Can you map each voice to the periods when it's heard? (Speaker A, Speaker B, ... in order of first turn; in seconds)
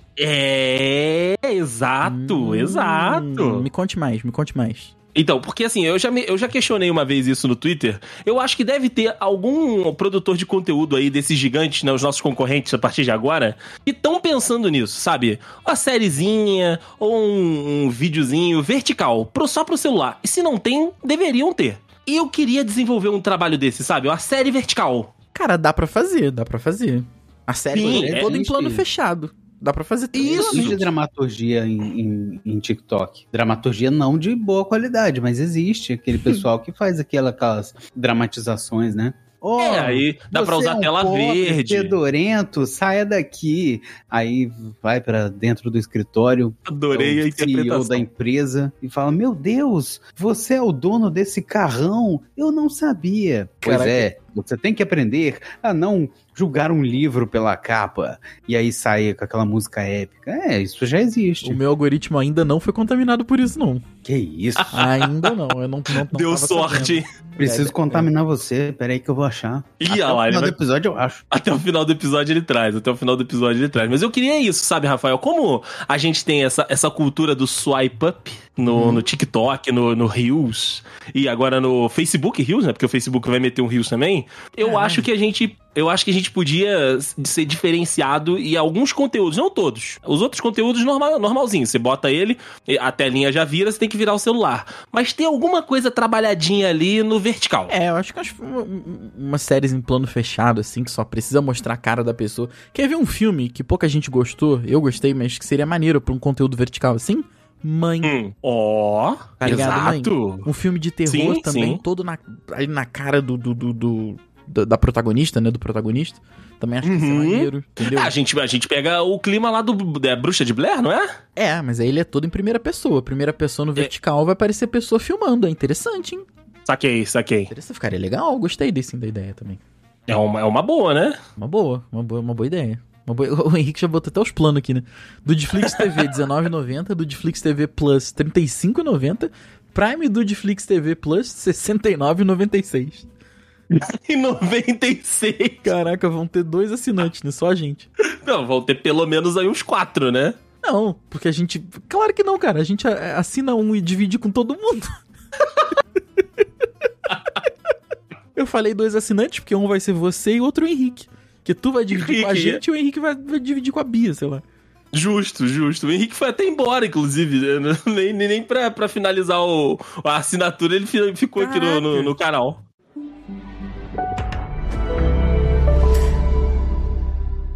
Speaker A: 0.2-3.7, 5.2-25.1, 27.7-28.3, 30.1-30.8, 39.6-42.0, 46.7-48.1, 64.7-65.3, 66.0-67.1, 69.8-70.5, 71.3-97.7, 108.0-110.5, 111.1-111.8, 116.8-121.2, 126.7-127.5, 130.1-131.2, 135.7-135.9, 143.7-145.7, 148.0-150.4, 157.1-157.3, 161.9-162.6, 164.9-172.6
Speaker B: 2.0-4.9, 25.3-30.9, 53.6-54.1, 61.4-63.8, 64.7-68.1, 78.7-79.1, 84.6-85.1, 97.7-108.1, 109.4-118.1, 121.4-126.3, 127.5-129.6, 131.4-143.1, 145.6-147.9, 150.6-155.0, 158.3-164.4, 171.4-172.2
Speaker C: 27.8-28.8, 30.2-61.6, 64.0-64.8, 67.4-71.2